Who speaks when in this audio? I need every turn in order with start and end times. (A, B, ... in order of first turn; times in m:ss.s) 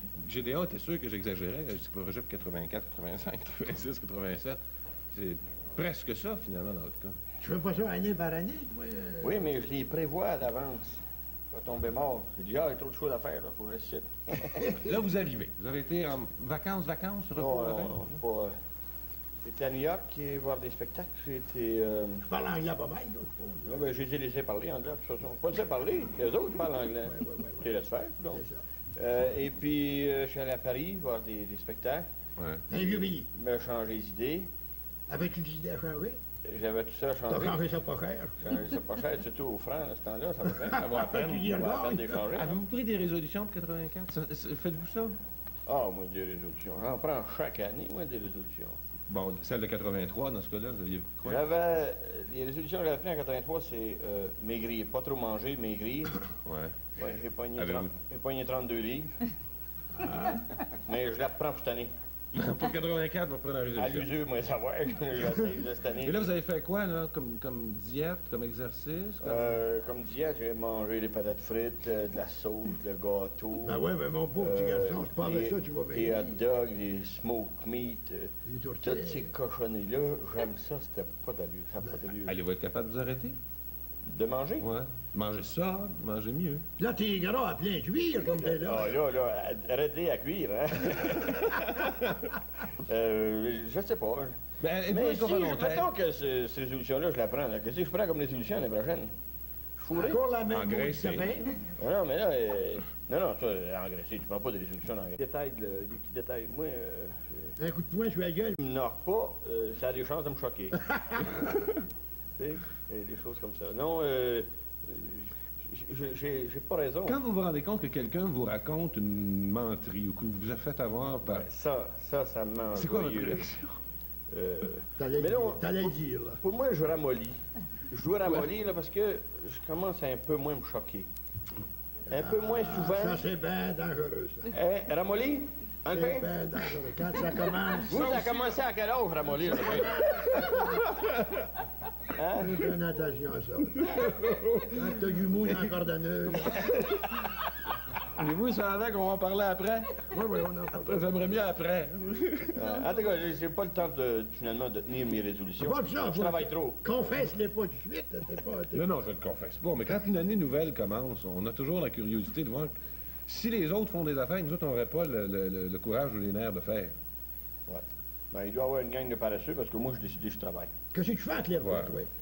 0:00.2-0:04.6 A
0:05.1-0:07.2 A
0:07.4-0:09.4 B
0:09.2-0:14.8 C
0:14.7-0:18.2 A
0:17.4-0:18.5 C
0:19.4-0:22.2 C
0:22.2-0:23.9 B
0:23.6-0:28.4 C
0:27.0-0:27.7 B
0:28.3-0:28.6 B
0:28.9-0:32.1 C
0:32.4-0:32.6 A
0:32.7-0:33.3 B
0:32.7-0:34.5 C
0:35.1-0:36.2 B
0:36.4-0:37.6 C
0:37.3-0:38.5 B
0:38.4-0:42.6 C
0:40.7-0:42.2 B
0:40.8-0:41.6 A
0:42.3-0:45.2 A
0:45.6-0:48.8 C
0:49.1-0:51.4 A
0:51.2-0:56.2 C
0:56.4-0:56.7 A
0:57.0-0:59.1 C
0:57.6-0:57.9 A
1:00.0-1:00.4 B
1:00.7-1:01.9 C
1:02.3-1:04.1 A
1:03.7-1:06.3 C
1:06.0-1:09.6 A
1:09.2-1:13.8 C
1:13.6-1:16.4 B
1:14.4-1:22.4 C
1:18.4-1:19.3 B
1:22.2-1:23.4 A
1:24.0-1:24.7 C
1:24.6-1:26.6 A
1:26.8-1:29.0 B
1:28.4-1:31.6 C
1:31.6-1:32.3 A
1:32.7-1:34.3 C
1:34.6-1:35.8 A
1:34.9-1:39.1 C
1:39.8-1:40.2 C
1:39.9-1:41.6 B
1:40.5-1:41.4 A
1:41.8-1:47.6 C
1:47.6-1:48.6 B
1:48.6-1:50.8 C
1:52.4-1:57.2 C
1:57.0-2:01.4 A
2:01.2-2:03.5 C
2:02.7-2:03.8 A
2:04.3-2:11.1 C
2:05.0-2:06.4 B
2:12.1-2:13.2 C
2:12.1-2:14.5 B
2:14.5-2:16.3 C
2:15.9-2:18.2 B
2:17.9-2:20.0 C
2:17.9-2:18.4 A
2:19.5-2:20.8 B
2:20.3-2:21.4 A
2:22.1-2:22.6 C
2:22.4-2:23.9 B
2:23.8-2:25.2 A
2:24.7-2:26.8 B
2:26.6-2:27.3 C
2:28.0-2:29.9 C
2:30.1-2:31.3 B
2:30.7-2:32.8 A
2:32.5-2:36.9 C
2:35.6-2:38.9 B
2:38.7-2:42.7 A
2:43.3-2:46.9 A
2:47.6-2:50.7 C
2:50.9-2:52.1 B
2:51.6-2:52.0 A